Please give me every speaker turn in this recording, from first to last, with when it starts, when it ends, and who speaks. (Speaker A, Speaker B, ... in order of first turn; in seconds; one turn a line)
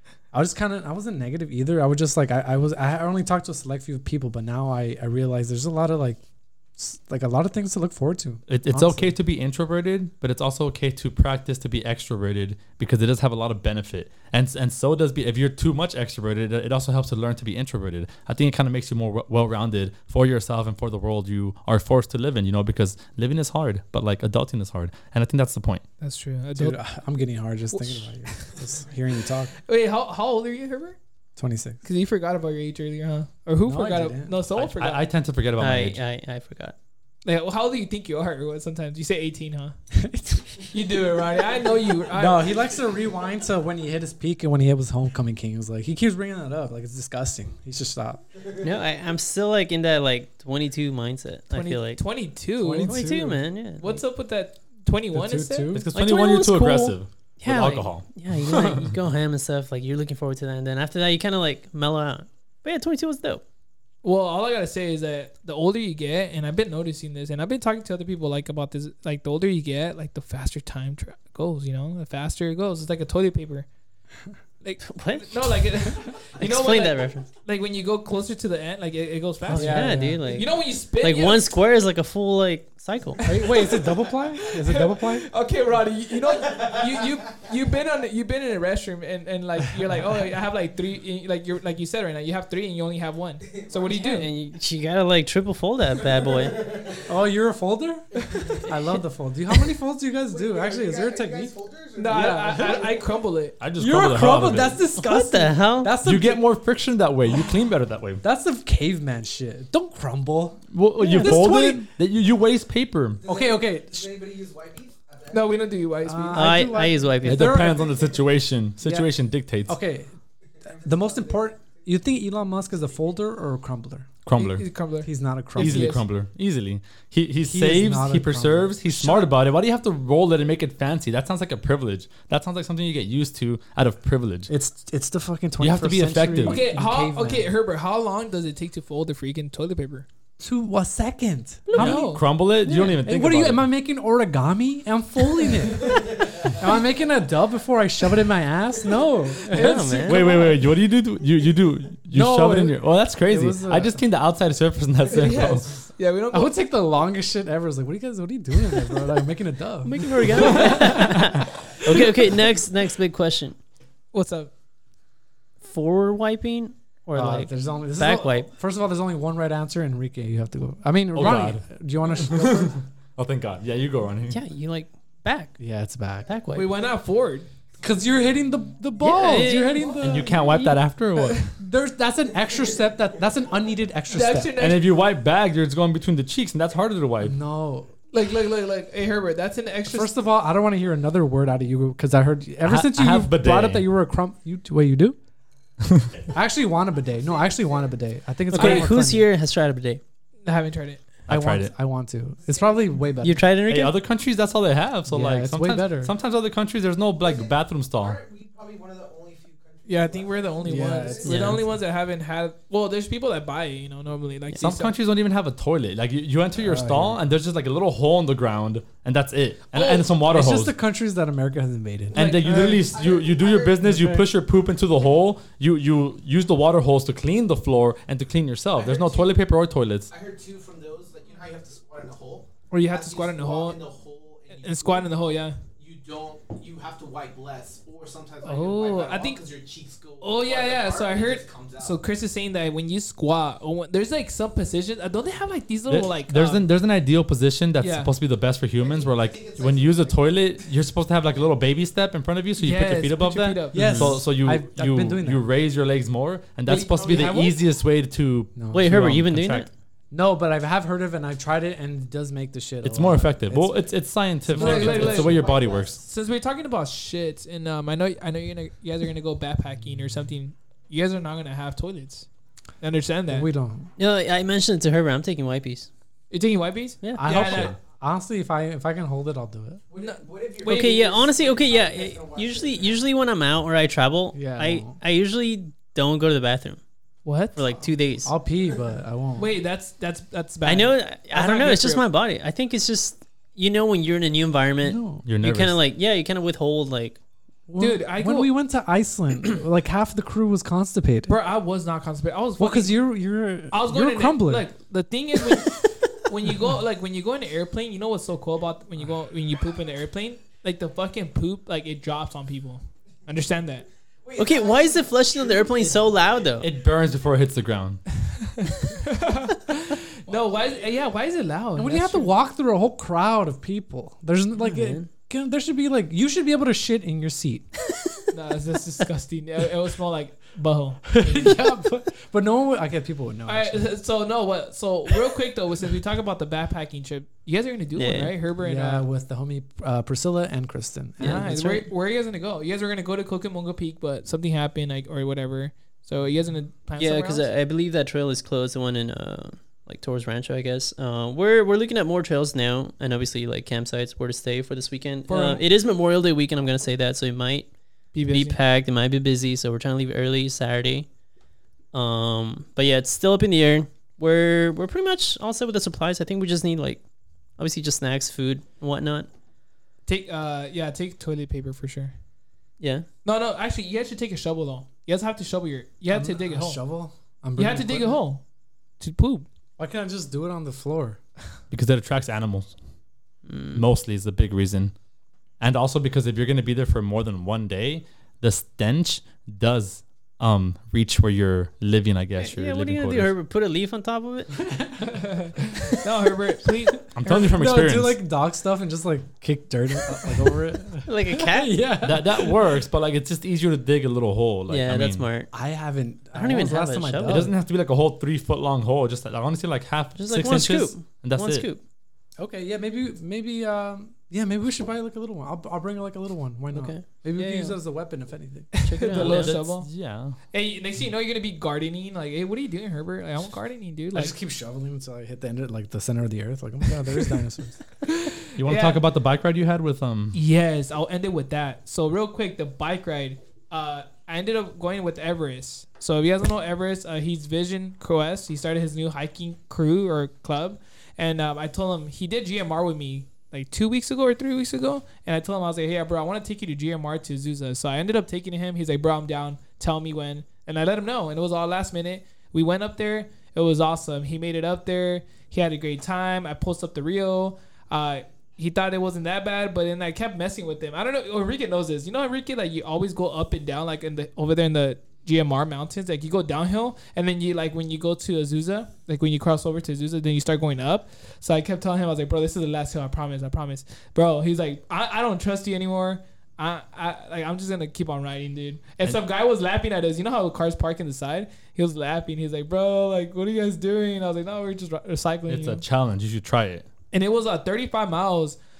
Speaker A: 0.3-6.2
Speaker A: 6.8-9.1
Speaker B: 8.5-25.8
Speaker C: 26.0-26.8
Speaker A: 26.5-29.5
Speaker C: 27.7-28.5
Speaker C: 29.6-31.0
Speaker A: 31.4-31.8
Speaker C: 31.8-35.0
Speaker A: 33.6-34.4
Speaker B: 34.5-36.0
Speaker D: 35.6-36.8
Speaker C: 37.2-39.8
Speaker A: 39.9-40.6
Speaker C: 40.7-42.6
Speaker A: 42.1-48.2
Speaker D: 48.6-52.0
Speaker C: 51.5-53.0
Speaker A: 52.6-54.0
Speaker D: 52.9-53.8
Speaker C: 53.8-55.8
Speaker A: 55.1-55.9
Speaker B: 55.7-58.8
Speaker D: 55.9-63.4
Speaker C: 64.0-73.7
Speaker C: 74.6-81.5
Speaker D: 74.8-77.3
Speaker D: 79.4-83.2
Speaker A: 79.5-80.2
Speaker A: 83.2-85.3
Speaker C: 83.2-94.3
Speaker E: 86.5-86.9
Speaker A: 93.9-94.2
Speaker D: 94.0-96.7
Speaker E: 96.0-97.1
Speaker A: 97.0-101.5
Speaker C: 98.2-98.6
Speaker E: 100.3-103.2
Speaker C: 102.0-103.6
Speaker A: 102.1-102.9
Speaker B: 103.6-104.8
Speaker A: 103.8-106.5
Speaker D: 105.0-105.9
Speaker B: 106.0-108.2
Speaker A: 108.2-111.8
Speaker B: 110.7-113.2
Speaker E: 113.2-115.7
Speaker A: 113.2-114.1
Speaker C: 115.3-116.6
Speaker A: 116.0-118.0
Speaker D: 116.3-117.6
Speaker B: 117.2-119.7
Speaker A: 118.8-119.1
Speaker A: 119.7-120.1
Speaker A: 120.6-124.1
Speaker E: 120.9-121.5
Speaker B: 124.2-124.7
Speaker C: 124.3-126.0
Speaker A: 125.0-126.0
Speaker B: 125.6-134.5
Speaker A: 127.5-129.3
Speaker A: 134.5-137.5
Speaker B: 135.6-136.7
Speaker C: 136.4-140.1
Speaker A: 140.4-142.0
Speaker D: 141.7-141.9
Speaker B: 141.7-143.7
Speaker C: 141.7-142.2
Speaker D: 142.6-143.0
Speaker A: 143.0-150.3
Speaker D: 149.5-150.3
Speaker B: 150.0-155.8
Speaker A: 152.1-154.0
Speaker C: 155.1-156.6
Speaker A: 156.3-162.1
Speaker D: 159.8-163.6
Speaker C: 164.1-164.5
Speaker D: 165.6-168.5
Speaker A: 167.1-172.8
Speaker B: 171.1-171.6
Speaker B: 172.2-174.4
Speaker D: 174.3-175.6
Speaker A: 175.6-176.3
Speaker D: 176.3-176.7
Speaker C: 176.5-177.4
Speaker A: 177.8-180.3
Speaker D: 179.0-180.7
Speaker B: 180.0-181.5
Speaker A: 181.6-184.5
Speaker C: 184.1-184.8
Speaker B: 184.5-187.3
Speaker A: 187.2-187.9
Speaker C: 188.1-190.1
Speaker A: 189.8-195.2
Speaker B: 192.6-193.8
Speaker A: 196.3-199.3
Speaker E: 197.2-197.8
Speaker D: 198.5-200.0
Speaker C: 198.6-198.9
Speaker C: 200.4-201.1
Speaker B: 201.3-201.7
Speaker A: 201.3-203.4
Speaker D: 203.2-203.9
Speaker B: 203.7-208.2
Speaker A: 205.1-206.1
Speaker E: 207.2-211.3
Speaker C: 209.8-214.9
Speaker A: 210.6-211.6
Speaker D: 211.2-211.6
Speaker B: 211.3-211.6
Speaker B: 214.6-220.7
Speaker A: 216.6-217.2
Speaker C: 219.7-220.1
Speaker A: 220.2-222.2
Speaker B: 222.1-230.1
Speaker E: 222.2-224.0
Speaker C: 222.2-222.9
Speaker A: 223.8-224.2
Speaker E: 228.7-229.4
Speaker E: 230.1-242.0
Speaker C: 232.7-233.8
Speaker C: 234.5-235.6
Speaker C: 238.4-239.4
Speaker C: 240.2-246.7
Speaker B: 245.9-259.7
Speaker C: 247.8-248.1
Speaker E: 248.7-250.7
Speaker C: 252.6-254.0
Speaker A: 253.7-255.5
Speaker D: 253.8-254.2
Speaker C: 256.6-257.6
Speaker E: 256.7-257.5
Speaker A: 258.6-258.9
Speaker D: 258.7-259.7
Speaker A: 260.1-265.5
Speaker B: 262.8-266.0
Speaker C: 264.5-272.2
Speaker E: 264.8-266.0
Speaker C: 272.8-273.5
Speaker A: 273.3-273.9
Speaker D: 274.0-275.9
Speaker C: 276.3-277.7
Speaker D: 277.0-277.7
Speaker A: 277.1-279.8
Speaker E: 279.9-283.1
Speaker C: 279.9-281.1
Speaker D: 280.6-286.8
Speaker A: 284.3-285.0
Speaker C: 287.2-287.6
Speaker D: 287.6-288.3
Speaker A: 288.2-289.6
Speaker C: 289.4-292.0
Speaker D: 290.6-297.2
Speaker A: 294.8-295.2
Speaker B: 295.2-295.8
Speaker A: 297.7-301.3
Speaker C: 297.8-298.5
Speaker C: 301.3-303.0
Speaker A: 302.6-304.6
Speaker C: 303.7-313.9
Speaker E: 314.2-316.6
Speaker D: 314.4-316.7
Speaker B: 316.6-318.0
Speaker C: 318.2-322.3
Speaker E: 320.3-321.2
Speaker A: 321.8-327.7
Speaker D: 324.5-325.1
Speaker C: 328.3-331.6
Speaker A: 331.1-334.0
Speaker C: 333.4-339.1
Speaker D: 337.9-338.3
Speaker A: 338.6-341.5
Speaker D: 341.2-341.9
Speaker C: 341.2-347.5
Speaker D: 347.0-357.7
Speaker C: 355.3-355.6
Speaker C: 358.1-358.6
Speaker D: 358.3-361.1
Speaker D: 361.9-367.0
Speaker D: 367.6-369.3
Speaker C: 370.1-372.1
Speaker D: 372.8-373.1
Speaker C: 373.2-376.8
Speaker A: 376.1-378.2
Speaker C: 377.6-378.4
Speaker C: 379.0-379.4
Speaker A: 379.8-381.2
Speaker B: 381.7-382.7
Speaker D: 383.5-383.8
Speaker B: 383.7-384.9
Speaker B: 385.6-393.3
Speaker D: 392.4-394.6
Speaker A: 394.9-396.0
Speaker C: 395.1-397.1
Speaker B: 397.1-398.2
Speaker A: 397.2-402.6
Speaker D: 401.0-401.8
Speaker B: 402.0-405.2
Speaker D: 404.7-405.5
Speaker A: 405.5-407.5
Speaker D: 406.3-407.5
Speaker B: 407.2-411.7
Speaker D: 410.1-411.8
Speaker A: 412.4-419.1
Speaker D: 416.7-417.8
Speaker C: 418.7-419.9
Speaker D: 418.8-419.6
Speaker B: 419.1-420.4
Speaker C: 420.5-424.3
Speaker A: 424.1-427.8
Speaker C: 428.1-429.0
Speaker B: 428.6-430.4
Speaker C: 430.3-485.8
Speaker B: 485.5-486.9
Speaker C: 487.1-488.6